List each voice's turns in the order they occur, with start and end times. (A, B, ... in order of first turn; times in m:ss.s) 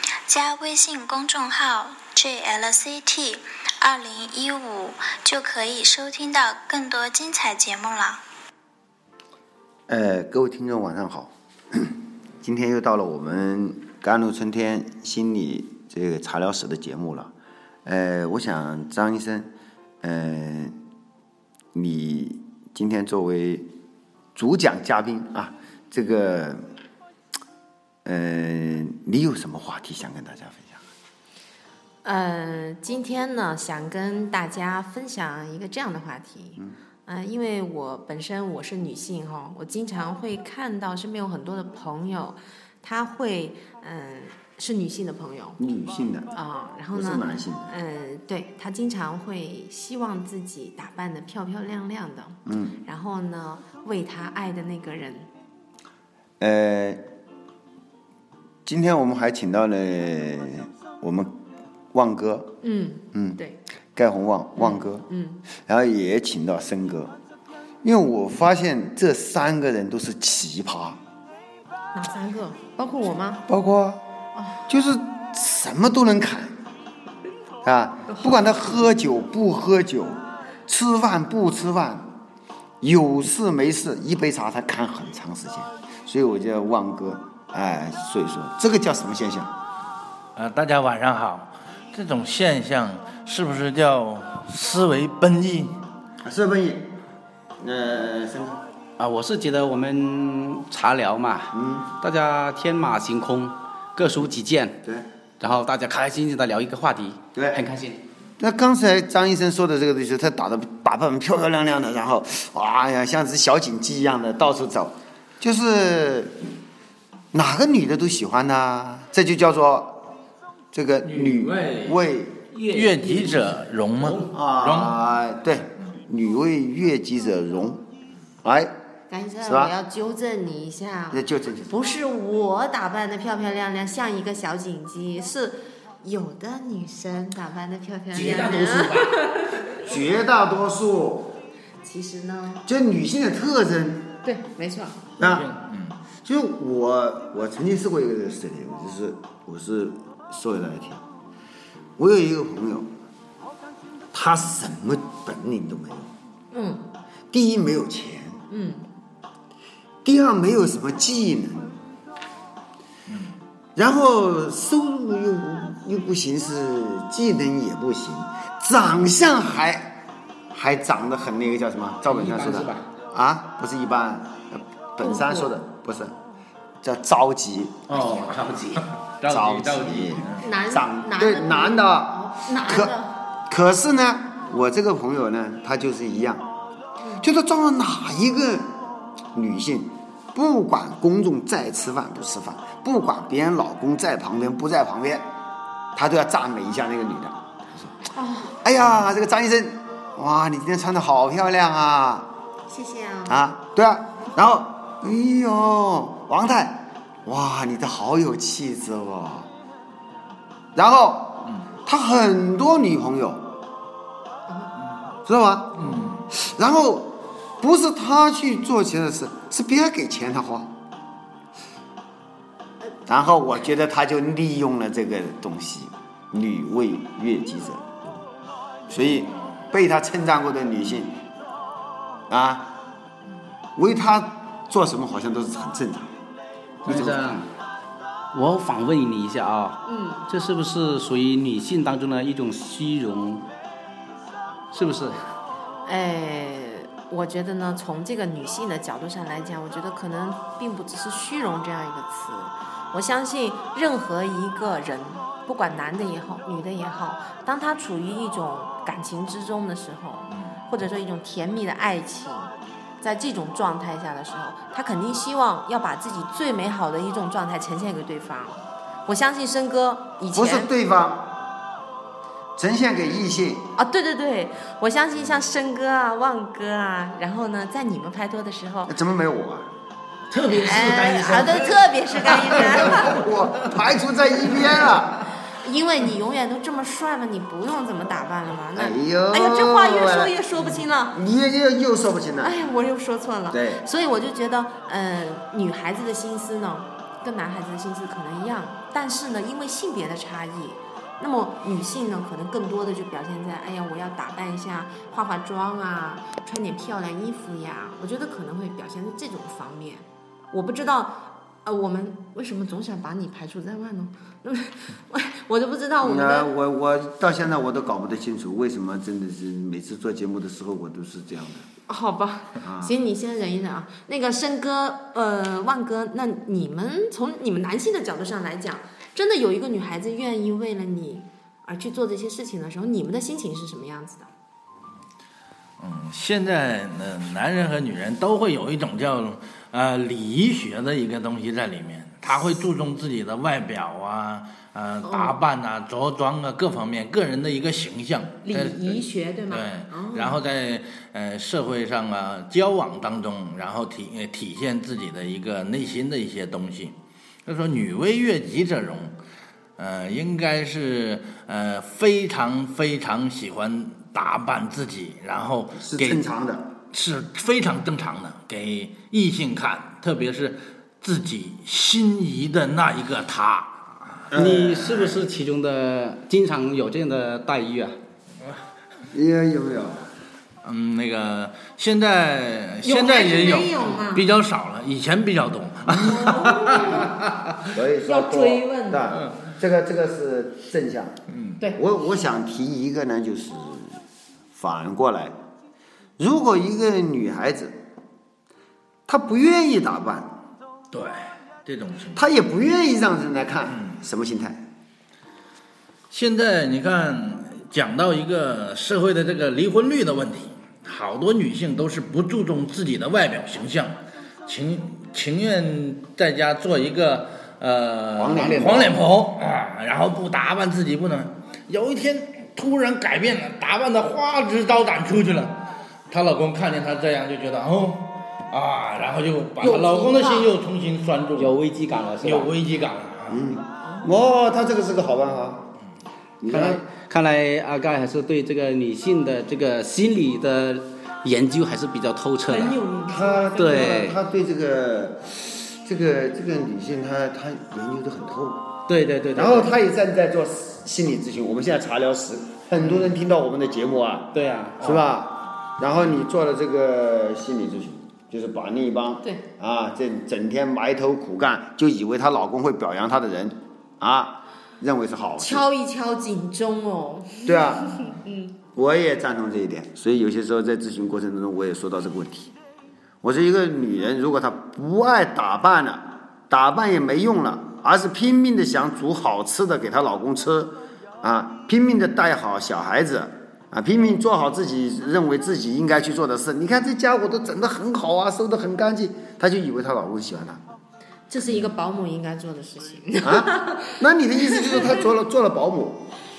0:00.3-0:08.2 A
0:09.9-0:17.3 B
0:17.8-0:19.5 B
0:20.0-0:20.8 B
0:21.7-0:23.7 B
0:24.4-0:26.6 B
0:28.0-0:30.8 B
0:32.0-0:45.6 C
0:45.6-0:46.3 B
0:46.3-0:55.3 C
0:46.9-0:47.7 B
0:52.5-0:52.8 B
0:56.4-0:57.0 B
0:58.6-1:01.3 B
1:01.9-1:02.6 B
1:02.6-1:03.6 C
1:03.1-1:03.4 B
1:04.0-1:05.1 B
1:04.6-1:05.4 C
1:05.6-1:07.2 B
1:07.8-1:11.0 B
1:11.9-1:13.4 C
1:13.5-1:14.0 B
1:14.4-1:14.6 C
1:14.7-1:16.6 B
1:17.6-1:22.1 B
1:18.1-1:18.4 C
1:22.8-1:29.5 B
1:30.4-1:35.8 D
1:36.2-1:37.0 B
1:37.6-1:38.6 B
1:39.0-1:44.8 E
1:41.5-1:41.9 B
1:45.4-1:48.0 E
1:47.4-1:47.6 B
1:48.4-1:56.4 B
1:57.3-2:00.1 B
2:00.7-2:02.4 B
2:01.0-2:02.0 D
2:02.5-2:04.4 E
2:02.7-2:05.0 D
2:04.3-2:07.8 B
2:08.4-2:08.7 B
2:09.1-2:19.6 C
2:09.4-2:09.7 B
2:11.1-2:11.8 B
2:18.1-2:19.2 E
2:19.8-2:21.4 B
2:21.8-2:22.6 C
2:22.6-2:24.2 B
2:24.2-2:25.0 C
2:25.2-2:25.5 B
2:25.2-2:26.0 D
2:26.2-2:31.0 B
2:32.0-2:32.9 B
2:34.1-2:36.1 B
2:36.5-2:36.9 C
2:37.3-2:38.4 B
2:38.5-2:38.9 C
2:40.0-2:41.8 B
2:43.1-2:43.4 D
2:43.8-2:50.0 B
2:50.5-2:56.2 B
2:52.0-2:52.9 E
2:55.0-2:55.5 C
2:56.8-2:58.4 B
2:57.9-2:58.9 E
2:58.0-3:00.4 D
2:59.3-3:06.4 B
3:00.4-3:03.2 C
3:07.2-3:08.7 B
3:09.3-3:15.3 B
3:16.0-3:17.9 B
3:18.1-3:18.6 C
3:18.6-3:22.3 B
3:22.7-3:23.4 C
3:23.3-3:29.5 B
3:30.8-3:33.5 B
3:34.5-3:34.7 C
3:35.2-3:40.8 B
3:35.8-3:36.3 D
3:43.1-3:48.2 B
3:48.9-3:51.2 B
3:52.3-3:52.8 B
3:53.8-3:56.1 B
3:56.8-3:57.5 E
3:56.9-3:57.3 B
3:58.3-4:03.5 E
3:59.9-4:00.3 C
4:04.7-4:05.2 E
4:05.8-4:30.7 C
4:20.3-4:20.6 D
4:30.3-4:31.4 B
4:32.6-4:33.7 B
4:33.8-4:39.0 C
4:38.9-4:39.7 B
4:40.3-4:41.5 E
4:40.5-4:43.2 C
4:42.5-4:45.3 B
4:45.5-4:51.2 C
4:48.8-4:50.4 B
4:51.1-4:52.6 B
4:52.4-5:16.5 C
4:53.5-4:53.8 B
5:16.0-5:21.7 B
5:21.9-5:34.3 C
5:22.6-5:23.0 B
5:35.8-5:57.0 D
5:45.0-5:45.4 C
5:48.4-5:50.4 C
5:57.5-5:59.2 D
5:59.8-6:06.3 D
6:05.8-6:06.7 B
6:06.9-6:15.2 D
6:14.3-6:15.0 B
6:14.4-6:18.0 E
6:19.1-6:20.1 B
6:20.6-6:27.6 D
6:22.8-6:24.3 C
6:26.0-6:27.1 B
6:26.1-6:27.1 C
6:27.7-6:31.2 B
6:28.0-6:29.2 C
6:31.3-6:31.6 D
6:31.8-6:34.0 B
6:34.5-6:35.4 B
6:36.2-6:37.8 B
6:39.1-6:40.4 B
6:40.9-6:42.2 D
6:42.1-6:44.6 B
6:43.7-6:43.9 D
6:46.1-7:11.6 D
6:58.2-6:58.9 B
7:09.6-7:10.5 C
7:11.4-7:12.5 E
7:12.2-7:13.4 D
7:13.3-7:15.7 B
7:13.8-7:14.1 C
7:16.4-7:16.8 B
7:16.5-7:22.8 E
7:22.5-7:24.0 C
7:23.1-7:28.7 B
7:23.6-7:24.2 E
7:28.9-7:29.7 E
7:29.4-7:45.7 B
7:32.8-7:33.1 E
7:34.3-7:35.1 E
7:36.0-7:36.2 D
7:45.4-7:48.5 C
7:47.4-7:48.2 B
7:48.7-7:52.5 B
7:53.2-8:10.6 B
8:11.3-8:15.0 C
8:13.2-8:16.1 B